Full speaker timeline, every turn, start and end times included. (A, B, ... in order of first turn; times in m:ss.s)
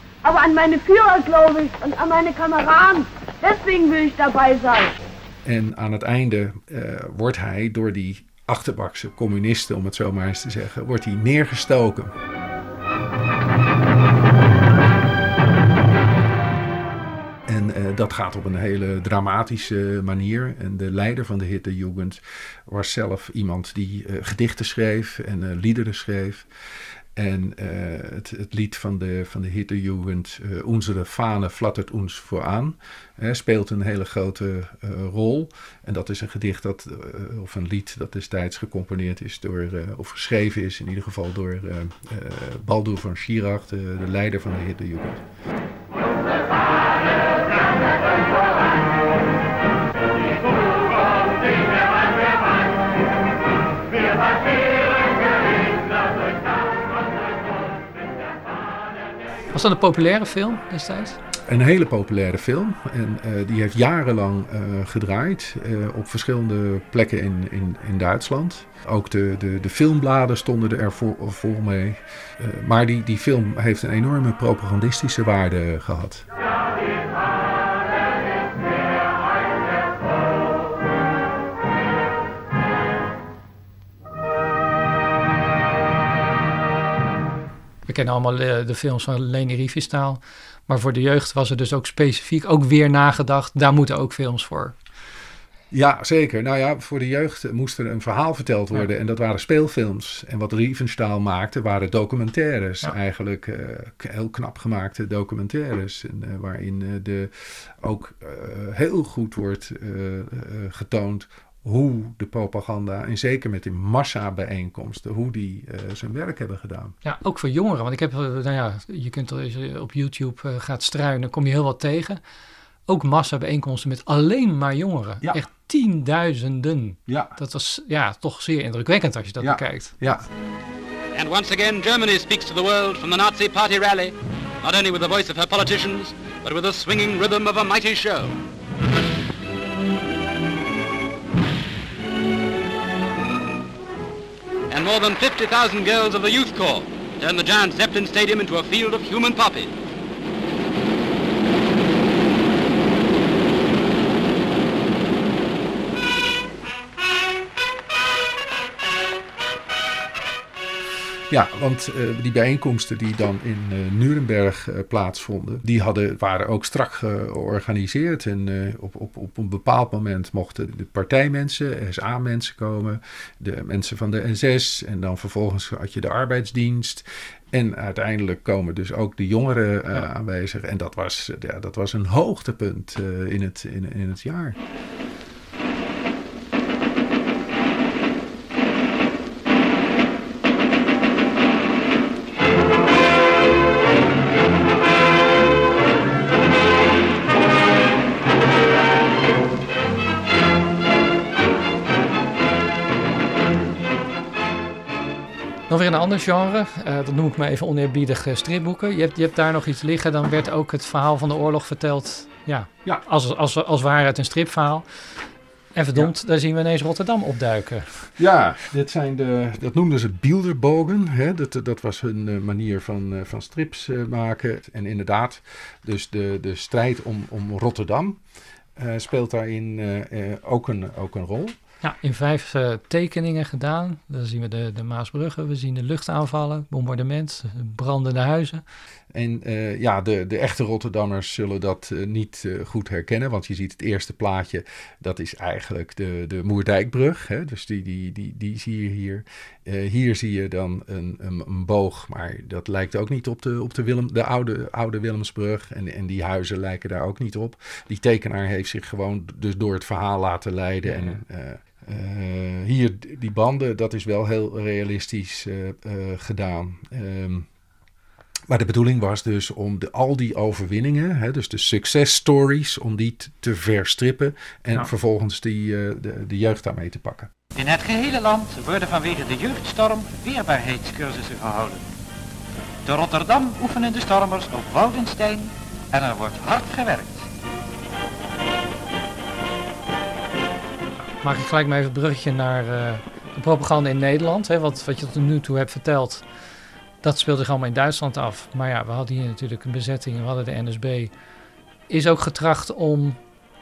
0:00.2-0:05.0 A
0:05.4-0:12.1 B
0:17.5-0:26.5 B
0:27.2-0:45.2 B
0:59.5-1:01.2 C
1:01.5-1:16.2 B
1:27.9-1:34.7 C
1:35.7-1:56.9 B
1:57.0-2:02.2 C
2:02.9-2:09.9 C
2:07.1-2:07.3 B
2:09.4-2:10.2 B
2:11.1-2:18.3 D
2:24.7-2:29.7 D
2:41.3-3:04.6 B
3:25.7-3:34.8 C
3:35.7-3:38.1 C
3:38.2-3:48.2 B
3:48.8-3:51.6 B
3:51.8-3:58.6 C
3:59.1-4:27.5 B
4:20.8-4:21.2 C
4:28.5-4:37.3 B
4:37.6-4:41.8 E
4:42.8-4:47.2 E
4:51.2-4:56.2 C
4:57.0-5:01.1 C
5:01.9-5:03.2 C